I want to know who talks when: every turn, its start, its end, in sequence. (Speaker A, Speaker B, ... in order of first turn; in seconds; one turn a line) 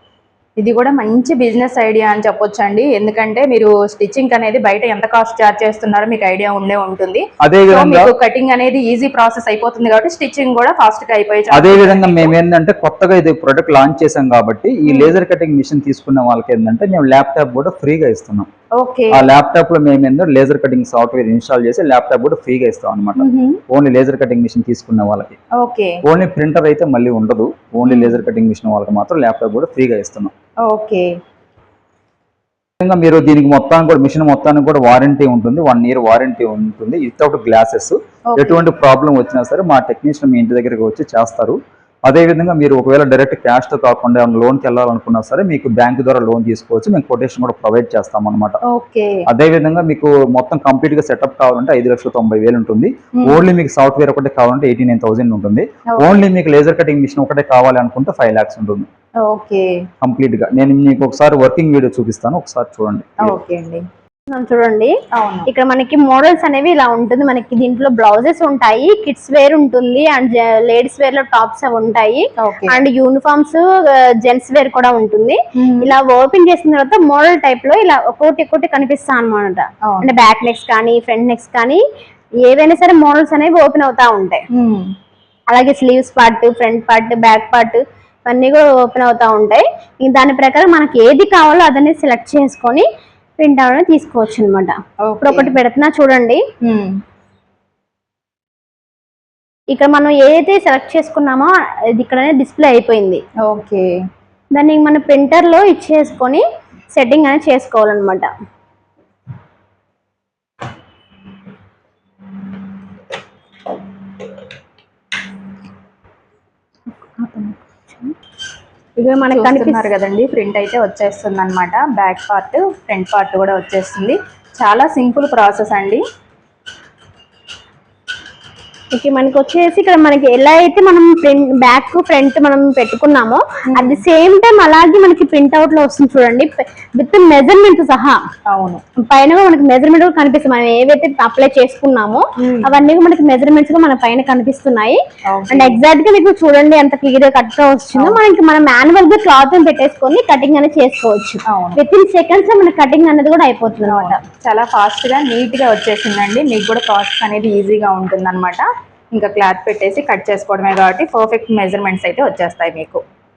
Speaker A: 0.6-12.3
Speaker B: 7.4-8.1
Speaker B: 11.5-18.5
Speaker A: 14.9-15.1
Speaker A: 18.8-19.2
Speaker B: 19.1-25.4
Speaker A: 23.2-23.6
Speaker A: 25.6-26.0
Speaker B: 26.0-30.3
Speaker A: 27.8-28.2
Speaker A: 30.6-31.1
Speaker B: 32.8-48.6
Speaker A: 38.3-38.6
Speaker A: 48.7-49.2
Speaker B: 49.3-58.9
Speaker A: 55.9-56.2
Speaker A: 59.2-59.7
Speaker B: 60.0-63.4
Speaker A: 63.2-63.8
Speaker C: 64.3-65.0
Speaker A: 65.1-65.5
Speaker C: 65.5-73.6
Speaker A: 72.4-72.8
Speaker C: 74.2-81.8
Speaker A: 75.6-75.9
Speaker C: 82.4-84.4
Speaker A: 84.5-84.9
Speaker C: 85.5-92.9
Speaker C: 93.4-96.4
Speaker A: 95.0-95.6
Speaker A: 96.6-97.0
Speaker C: 99.7-103.2
Speaker A: 103.4-103.9
Speaker C: 104.5-108.3
Speaker C: 117.0-118.1
Speaker C: 119.0-119.9
Speaker A: 119.3-126.0
Speaker C: 128.9-138.2
Speaker A: 133.7-134.0
Speaker A: 138.5-138.8
Speaker C: 139.0-145.0
Speaker A: 142.4-142.7
Speaker A: 145.3-145.8
Speaker C: 145.5-154.2
Speaker A: 147.9-148.2
Speaker A: 151.5-151.8
Speaker A: 153.9-163.0